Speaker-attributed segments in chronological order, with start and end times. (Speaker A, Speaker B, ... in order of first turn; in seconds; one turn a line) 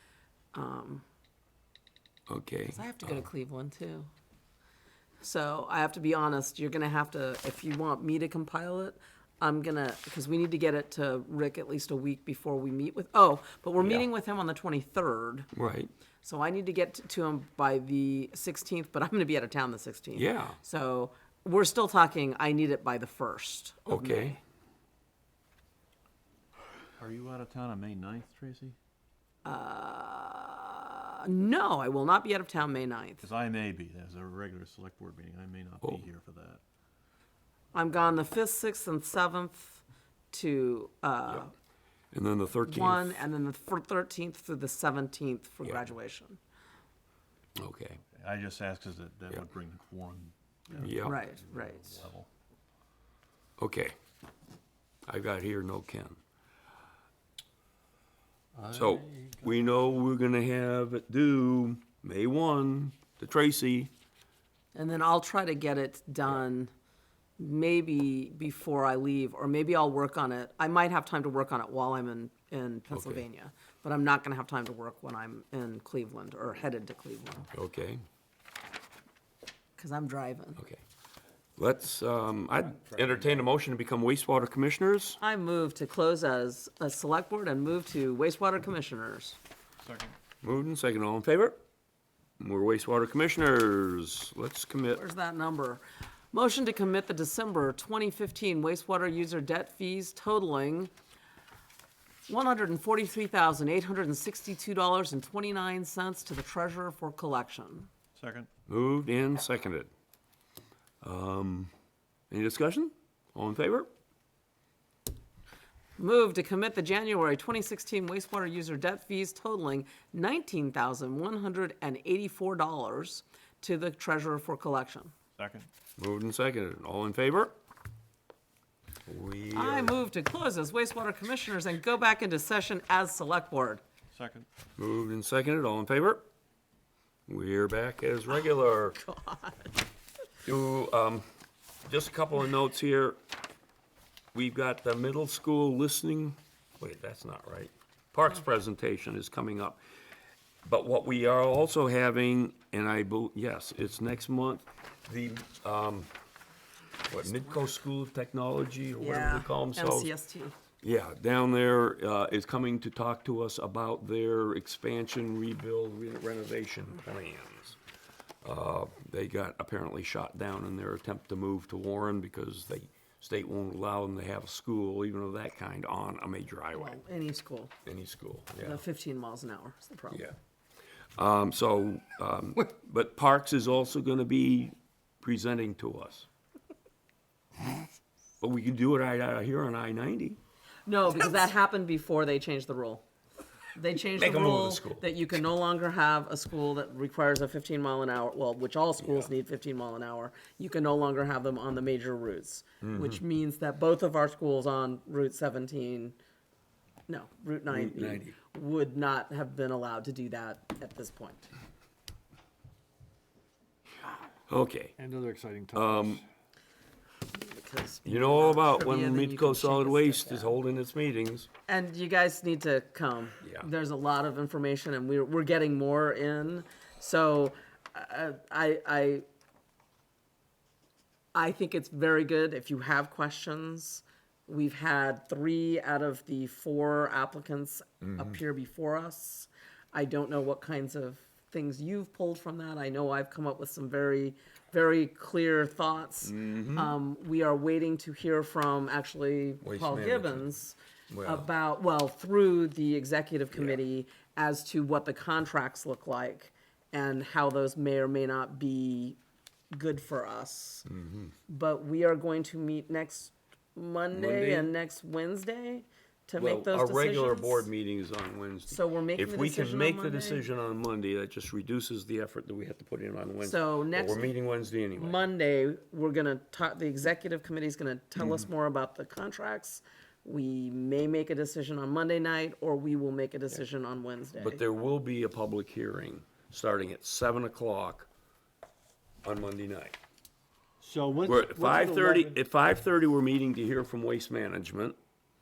Speaker A: 0.5-1.0
Speaker B: 2.3-3.2
Speaker A: 2.7-4.1
Speaker A: 5.2-15.5
Speaker B: 13.8-14.1
Speaker B: 15.5-15.9
Speaker A: 16.2-24.4
Speaker B: 20.1-20.6
Speaker B: 23.9-24.4
Speaker C: 27.0-28.8
Speaker A: 29.4-33.2
Speaker C: 33.2-36.6
Speaker A: 37.7-41.5
Speaker B: 42.1-43.2
Speaker A: 42.6-46.4
Speaker B: 47.6-48.0
Speaker C: 48.1-52.3
Speaker B: 50.8-51.2
Speaker A: 51.0-52.0
Speaker B: 53.6-53.9
Speaker B: 55.1-56.2
Speaker C: 58.6-59.3
Speaker B: 58.7-63.9
Speaker A: 64.7-66.7
Speaker A: 67.4-77.5
Speaker B: 72.9-73.2
Speaker B: 77.5-78.0
Speaker A: 79.8-80.6
Speaker B: 81.6-85.2
Speaker C: 82.9-83.4
Speaker A: 85.2-89.4
Speaker C: 89.8-90.2
Speaker B: 90.4-91.6
Speaker B: 92.4-95.0
Speaker A: 94.9-100.9
Speaker A: 102.3-107.9
Speaker C: 108.2-108.5
Speaker B: 108.7-109.9
Speaker B: 111.0-111.7
Speaker B: 112.3-113.9
Speaker A: 116.0-125.1
Speaker C: 125.4-125.7
Speaker B: 126.0-127.5
Speaker B: 129.1-130.0
Speaker A: 129.5-133.8
Speaker C: 134.1-134.5
Speaker B: 134.8-136.2
Speaker B: 137.3-139.0
Speaker A: 139.0-139.7
Speaker B: 140.4-141.2
Speaker B: 141.8-143.2
Speaker B: 144.3-149.8
Speaker B: 150.6-156.1
Speaker B: 157.1-160.1
Speaker A: 159.0-160.5
Speaker B: 160.8-167.8
Speaker B: 168.4-177.0
Speaker A: 176.7-177.7
Speaker B: 177.8-178.8
Speaker A: 178.6-180.2
Speaker B: 181.2-186.3
Speaker B: 188.4-190.4
Speaker A: 190.8-193.0
Speaker A: 193.7-206.2
Speaker B: 194.1-195.1
Speaker B: 199.0-199.3
Speaker B: 202.8-203.2
Speaker A: 207.1-211.5
Speaker B: 207.7-208.3
Speaker B: 214.5-214.9
Speaker D: 215.0-216.2
Speaker B: 215.7-216.2
Speaker A: 217.3-220.6
Speaker B: 218.0-221.5
Speaker A: 221.7-229.2
Speaker B: 223.4-223.7
Speaker A: 231.3-259.2
Speaker B: 238.0-238.4
Speaker B: 246.2-246.9
Speaker B: 249.6-250.4
Speaker B: 251.1-251.5
Speaker B: 253.5-253.8
Speaker A: 259.7-260.9
Speaker B: 260.9-261.3
Speaker A: 261.5-267.7
Speaker B: 264.1-264.7
Speaker B: 266.4-275.2
Speaker A: 268.7-270.5
Speaker A: 273.4-274.3
Speaker A: 274.9-284.6
Speaker B: 278.2-278.4
Speaker B: 284.4-288.1
Speaker B: 289.2-290.0
Speaker D: 290.8-292.3
Speaker B: 291.2-294.9